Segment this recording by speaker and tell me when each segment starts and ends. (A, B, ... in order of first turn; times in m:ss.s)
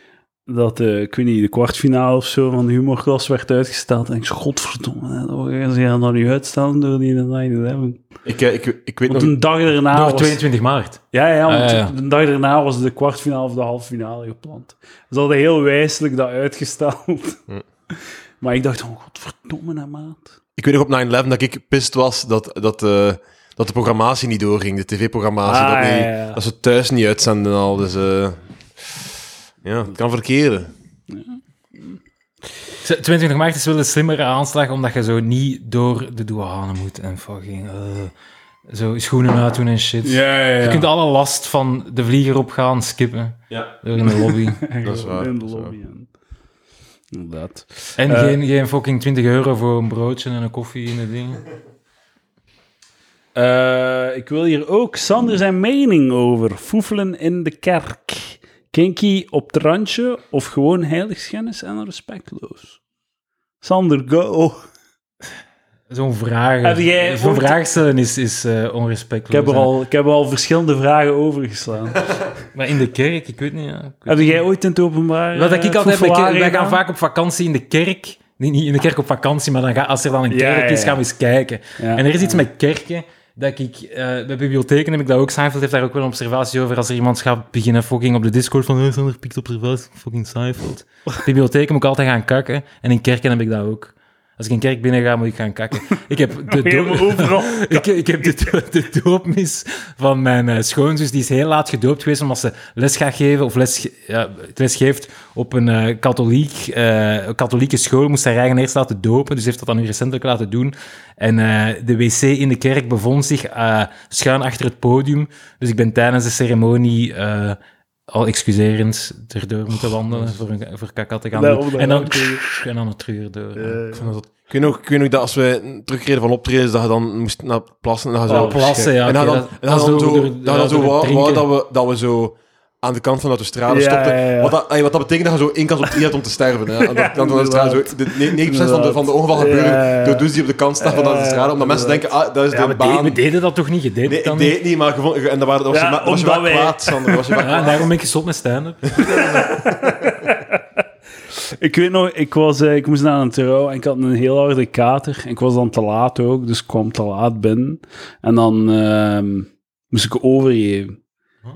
0:00.5-0:08.0 A
0:08.2-0:09.3 B
0:09.1-0:10.4 A
0:09.9-0:11.9 C
0:11.1-0:20.2 A
0:20.6-0:29.0 B
0:25.4-0:26.4 A
0:29.6-0:30.7 B
0:31.1-0:32.0 A
0:32.8-0:38.1 C
0:38.7-0:44.7 C
0:40.0-0:40.9 A
0:44.0-0:46.1 A
0:44.8-0:45.7 B
0:47.1-0:48.4 A
0:48.0-0:51.4 C
0:53.3-1:02.8 A
1:03.6-1:04.6 A
1:05.9-1:09.7 C
1:06.6-1:07.6 A
1:09.3-1:12.1 A
1:12.5-1:14.4 C
1:14.1-1:16.8 A
1:15.3-1:57.6 C
1:20.3-1:21.0 A
1:21.8-1:22.4 A
1:36.5-1:38.5 A
1:58.1-2:03.8 C
1:59.7-2:00.4 B
2:01.3-2:02.4 A
2:03.6-2:04.1 A
2:03.9-2:23.2 B
2:08.3-2:11.4 C
2:08.3-2:08.9 A
2:13.7-2:14.5 A
2:16.8-2:20.3 A
2:20.8-2:22.0 A
2:22.5-2:24.5 C
2:24.0-2:27.9 B
2:25.7-2:27.7 A
2:27.4-2:29.2 C
2:29.0-2:30.2 B
2:29.0-2:30.6 A
2:31.6-2:41.0 A